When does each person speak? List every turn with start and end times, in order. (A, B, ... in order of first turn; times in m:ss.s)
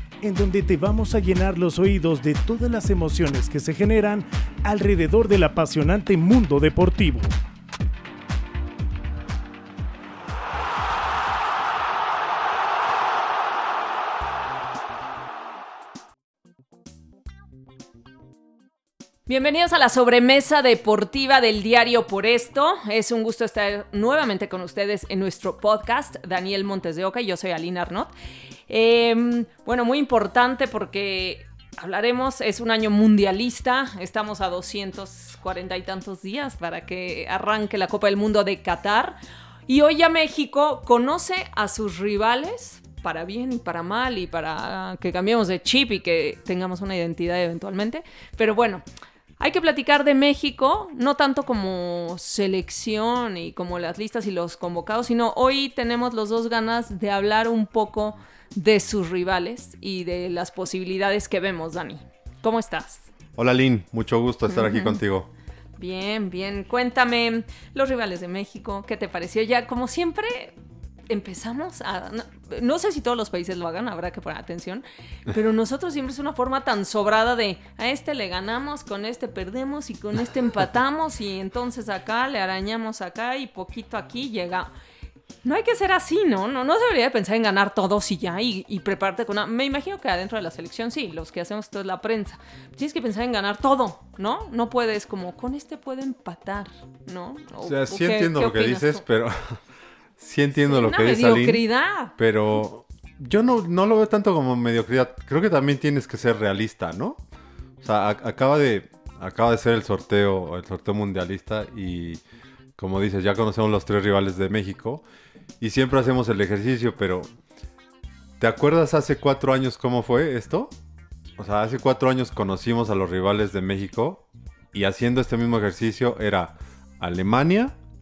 0:00.2-0:07.3 A
0:19.3-0:28.1 B
0:28.7-0:48.8 B
0:49.4-1:03.1 B
1:03.4-1:05.3 C
1:04.5-1:05.0 B
1:05.8-1:10.6 B
1:11.1-1:24.7 B
1:25.4-1:39.0 B
1:37.6-1:39.6 C
1:40.2-1:41.6 C
1:40.6-1:42.2 B
1:42.2-1:47.2 C
1:47.8-1:52.2 C
1:52.8-1:55.0 C
1:55.6-1:57.3 C
1:58.4-2:00.7 C
2:01.4-2:07.8 C